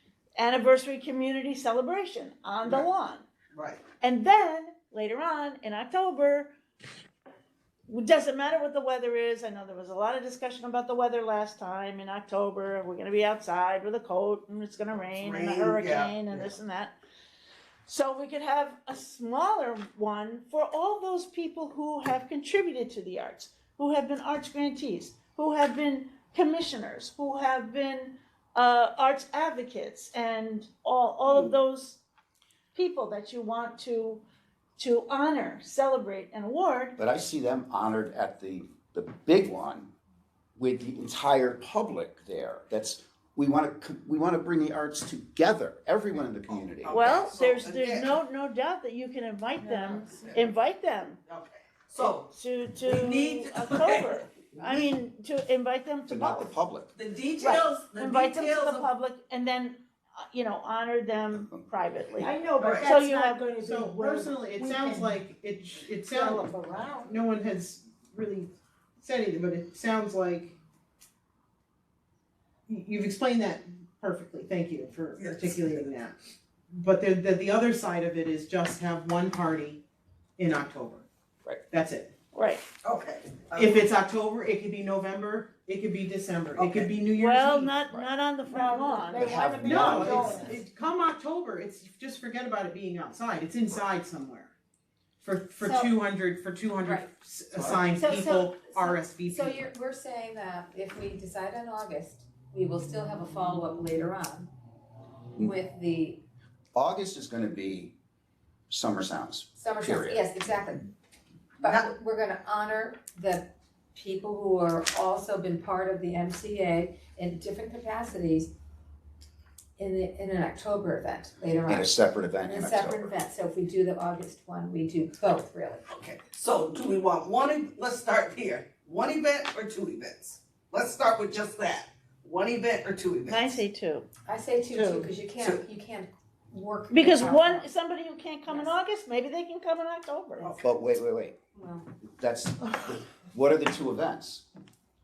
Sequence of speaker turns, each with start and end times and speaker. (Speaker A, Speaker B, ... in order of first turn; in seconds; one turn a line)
Speaker A: 0.4-3.2
Speaker B: 3.5-3.8
Speaker A: 4.0-6.5
Speaker A: 7.9-16.9
Speaker B: 15.1-16.5
Speaker A: 17.9-32.0
Speaker B: 31.3-31.5
Speaker A: 32.7-34.2
Speaker A: 34.8-37.0
Speaker C: 37.0-39.9
Speaker C: 40.5-47.0
Speaker B: 46.5-48.2
Speaker A: 46.9-51.2
Speaker B: 50.0-50.5
Speaker B: 51.3-52.3
Speaker A: 52.0-56.5
Speaker B: 52.8-54.9
Speaker C: 56.1-56.9
Speaker B: 56.9-58.9
Speaker A: 57.4-62.3
Speaker D: 62.1-65.2
Speaker B: 62.6-62.9
Speaker A: 62.8-63.4
Speaker E: 63.6-66.5
Speaker D: 65.8-67.1
Speaker E: 67.0-70.5
Speaker E: 72.7-76.1
Speaker B: 75.2-75.9
Speaker E: 76.7-79.8
Speaker E: 80.4-81.0
Speaker E: 81.7-82.1
Speaker A: 82.3-82.6
Speaker B: 82.8-83.8
Speaker E: 83.5-87.2
Speaker B: 86.5-87.7
Speaker A: 87.1-90.2
Speaker D: 88.5-90.6
Speaker C: 89.1-90.4
Speaker E: 89.5-94.5
Speaker E: 95.2-99.6
Speaker F: 95.6-95.9
Speaker F: 96.8-97.1
Speaker F: 97.9-104.5
Speaker F: 105.4-106.2
Speaker C: 106.7-107.9
Speaker C: 108.7-110.2
Speaker F: 109.6-110.9
Speaker F: 111.6-118.5
Speaker B: 111.6-111.9
Speaker F: 119.8-121.9
Speaker C: 121.7-123.1
Speaker F: 122.5-125.8
Speaker B: 125.9-133.6
Speaker A: 133.3-134.1
Speaker F: 134.2-137.7
Speaker E: 134.7-135.1
Speaker A: 136.9-140.5
Speaker F: 138.5-138.7
Speaker B: 140.4-140.7
Speaker C: 140.6-141.3
Speaker F: 141.5-141.9
Speaker C: 142.2-144.4